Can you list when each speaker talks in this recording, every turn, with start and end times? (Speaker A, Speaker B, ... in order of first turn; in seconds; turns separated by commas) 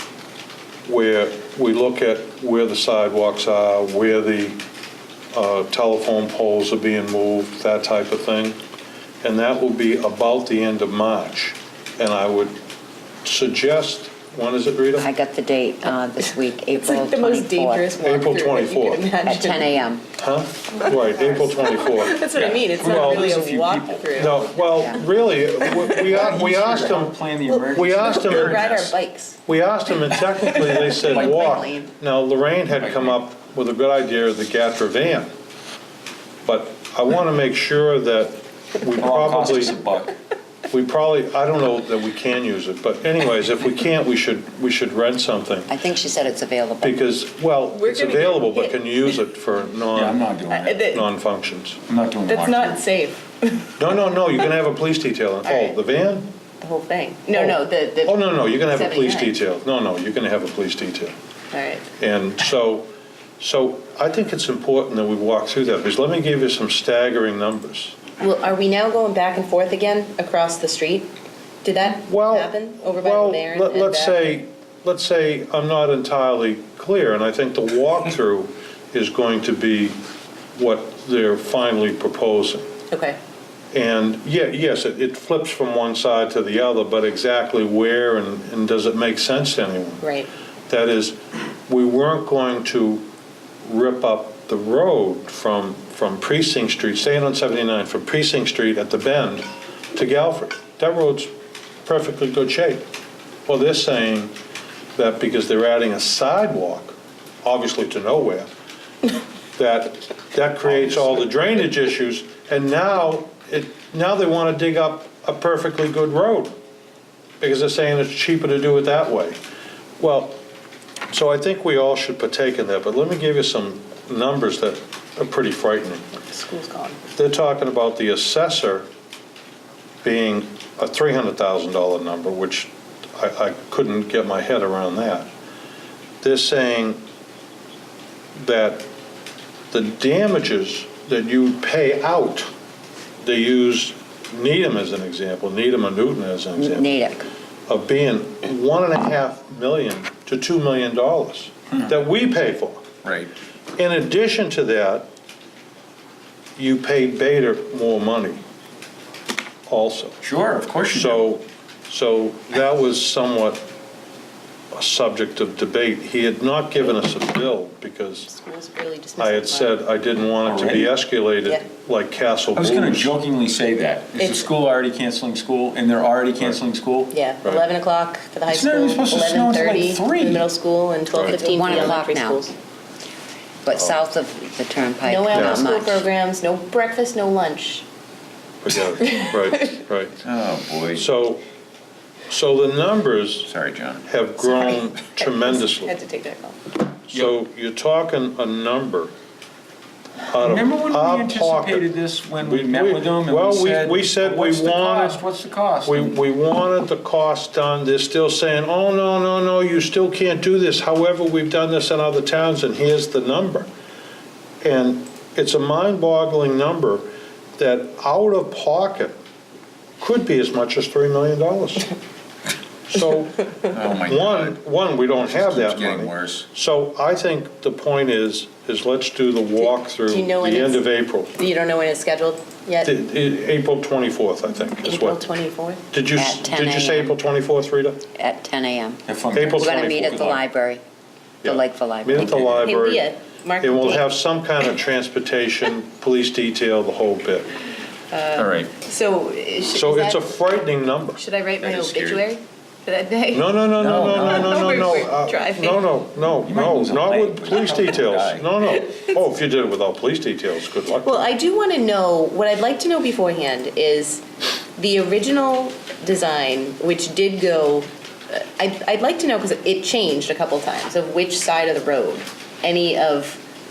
Speaker A: 0.9-4.6, Speaker A: 5.3-8.6, Speaker A: 9.2-12.6, Speaker A: 13.2-15.1, Speaker B: 15.0-17.9, Speaker C: 16.8-19.8, Speaker A: 18.0-19.0, Speaker B: 19.2-20.0, Speaker A: 20.2-22.2, Speaker C: 20.8-24.6, Speaker D: 22.3-24.3, Speaker A: 22.8-23.3, Speaker A: 24.1-27.1, Speaker C: 25.6-26.2, Speaker D: 26.0-28.9, Speaker C: 27.5-29.4, Speaker A: 27.7-28.7, Speaker A: 29.5-35.3, Speaker C: 30.4-31.9, Speaker D: 31.0-31.4, Speaker D: 32.8-33.2, Speaker A: 36.5-39.8, Speaker D: 39.0-40.2, Speaker A: 40.7-45.7, Speaker B: 45.7-47.0, Speaker A: 46.8-50.2, Speaker C: 47.7-49.0, Speaker D: 49.9-50.9, Speaker C: 50.5-51.1, Speaker A: 50.9-51.8, Speaker D: 51.9-52.8, Speaker C: 52.3-53.8, Speaker A: 53.8-56.3, Speaker C: 55.5-55.8, Speaker C: 56.6-59.4, Speaker A: 57.3-61.1, Speaker C: 61.5-61.9, Speaker A: 62.0-62.9, Speaker A: 63.4-68.0, Speaker C: 68.2-71.1, Speaker C: 71.6-74.4, Speaker A: 72.0-80.0, Speaker A: 80.5-82.7, Speaker C: 82.9-83.2, Speaker A: 83.7-90.0, Speaker C: 90.0-90.3, Speaker A: 90.7-93.0, Speaker A: 93.6-101.3, Speaker A: 101.8-102.8, Speaker A: 103.5-104.3, Speaker A: 105.0-108.5, Speaker A: 109.6-116.5, Speaker A: 117.4-119.4, Speaker A: 120.0-120.4, Speaker A: 121.1-126.2, Speaker C: 126.3-127.0, Speaker A: 127.2-128.9, Speaker A: 130.0-135.3, Speaker A: 136.2-137.0, Speaker A: 138.4-138.9, Speaker A: 139.7-142.5, Speaker A: 143.2-147.0, Speaker B: 146.6-147.3, Speaker A: 147.7-152.9, Speaker D: 153.0-153.3, Speaker A: 153.8-155.1, Speaker A: 156.6-158.4, Speaker A: 159.7-160.2, Speaker D: 160.2-161.2, Speaker A: 160.9-163.6, Speaker A: 164.7-168.3, Speaker C: 168.3-169.8, Speaker A: 169.2-173.1, Speaker D: 170.4-170.9, Speaker D: 172.6-177.1, Speaker C: 174.2-174.5, Speaker C: 177.1-182.6, Speaker D: 178.5-180.4, Speaker B: 181.2-182.4, Speaker B: 183.6-186.0, Speaker C: 185.0-187.8, Speaker A: 185.3-185.6, Speaker A: 188.6-190.2, Speaker C: 189.0-189.4, Speaker D: 190.2-191.1, Speaker A: 190.9-191.4, Speaker A: 192.3-193.5, Speaker D: 193.5-194.1, Speaker A: 194.1-195.9, Speaker C: 194.5-196.6, Speaker A: 197.1-199.1, Speaker A: 200.3-205.2, Speaker D: 200.4-206.2, Speaker A: 205.8-213.7, Speaker A: 214.6-219.2, Speaker A: 220.0-221.9, Speaker A: 222.9-231.3, Speaker D: 223.7-224.6, Speaker D: 225.2-226.5, Speaker C: 229.6-232.9, Speaker A: 232.8-235.2, Speaker C: 234.8-235.8, Speaker A: 235.9-238.1, Speaker B: 236.2-237.2, Speaker B: 238.2-240.8, Speaker D: 239.1-240.4, Speaker A: 239.3-240.2, Speaker A: 241.4-243.1, Speaker B: 241.4-242.6, Speaker C: 242.6-244.1, Speaker A: 243.6-247.6, Speaker C: 248.1-250.3, Speaker D: 248.4-248.7, Speaker A: 249.7-251.2, Speaker C: 251.2-256.0, Speaker D: 251.6-252.3, Speaker A: 253.3-261.3, Speaker D: 253.8-255.0, Speaker D: 256.2-258.6, Speaker C: 261.0-264.2, Speaker C: 264.8-273.4